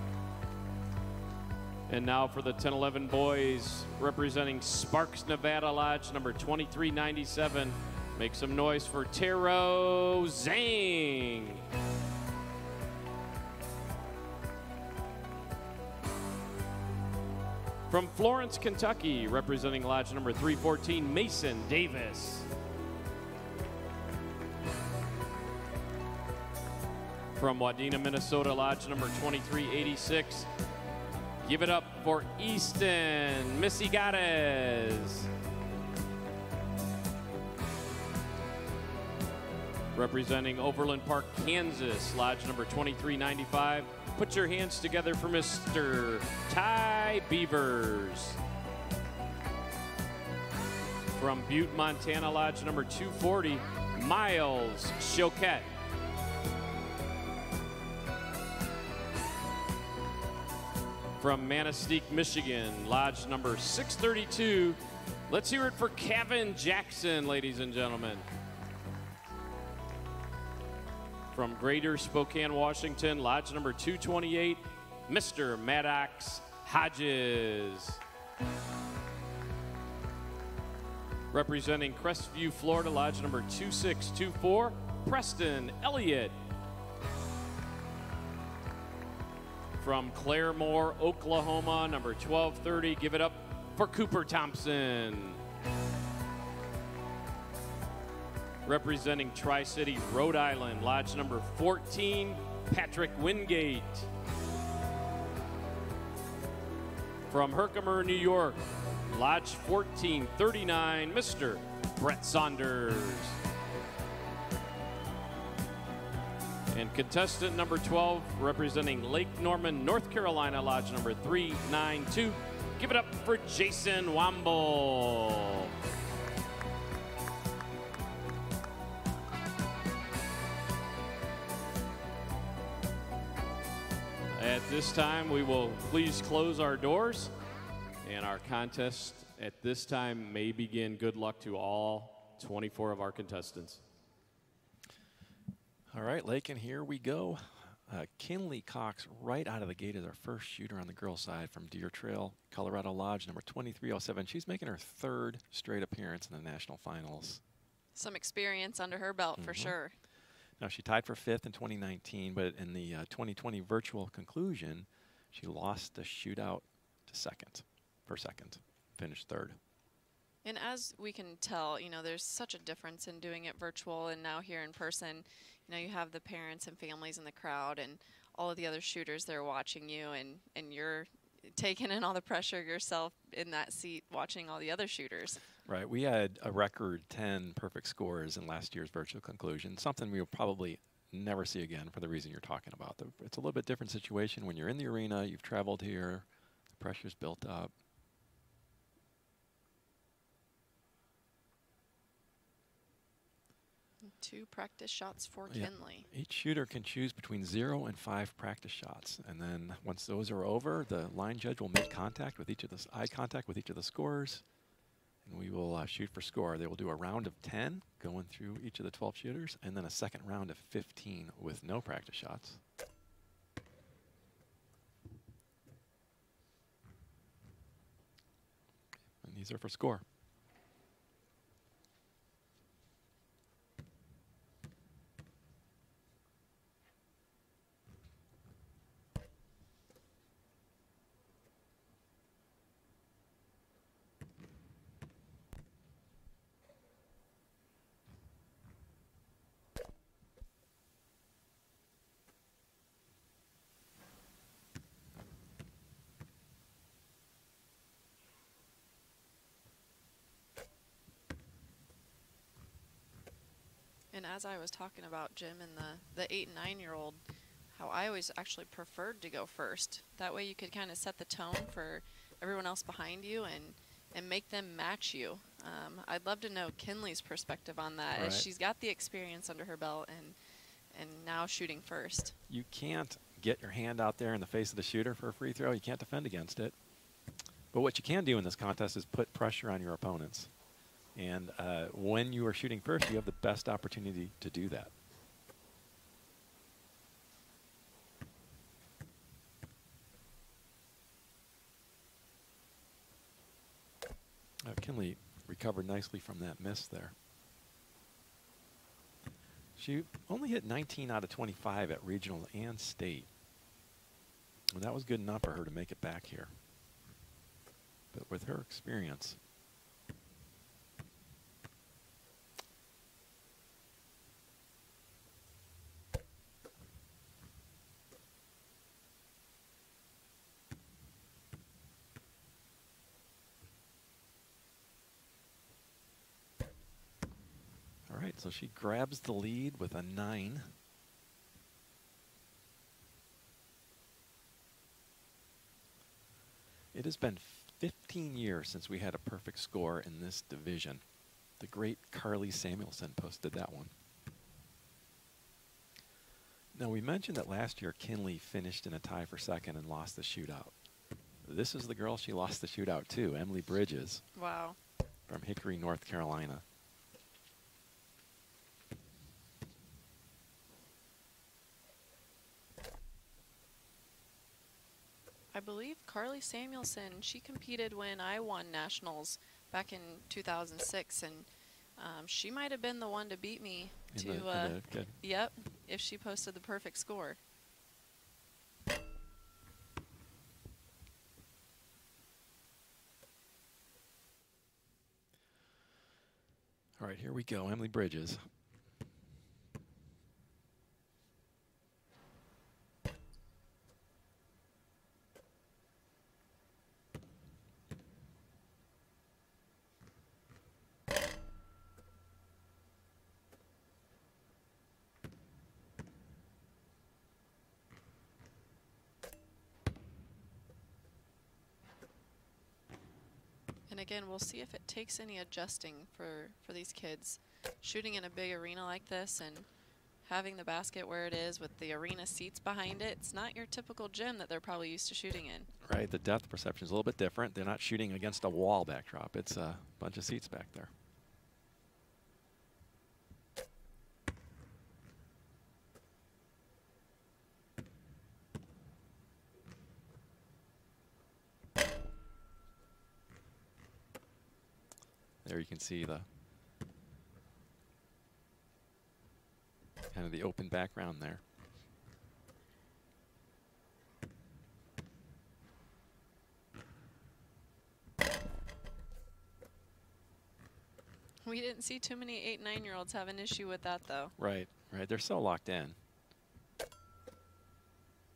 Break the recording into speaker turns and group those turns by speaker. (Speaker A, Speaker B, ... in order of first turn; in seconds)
Speaker A: 1.9-11.6, 17.9-22.5, 27.4-30.5, 31.4-35.3, 39.9-48.4, 51.1-55.7, 61.2-68.2, 71.3-78.0, 81.3-86.4, 89.8-95.4, 98.6-104.1, 107.3-113.4, 116.7-125.7, 134.3-137.3, 138.0-143.8
Speaker B: 145.9-157.4, 159.4-159.8, 160.6-169.6, 185.6-197.7, 205.5-214.4, 215.2-222.6, 229.2-230.0, 278.1-278.5, 282.5-286.8, 287.7-290.5, 291.1-294.9, 304.6-307.1, 309.8-313.3, 314.7-316.5, 318.1-319.4, 338.1-340.8, 346.9-351.0, 351.6-353.9, 356.7-360.7, 361.4-364.2, 365.3-366.6, 384.1-385.1, 397.0-398.5, 435.8-440.9, 455.4-456.3, 460.1-461.4, 474.4-476.0
Speaker C: 157.9-159.9, 170.4-185.4, 204.0-206.1, 264.1-267.2, 267.7-280.4, 280.9-282.4, 364.3-364.8, 375.5-387.4, 423.9-429.7, 430.2-435.7, 471.4-474.3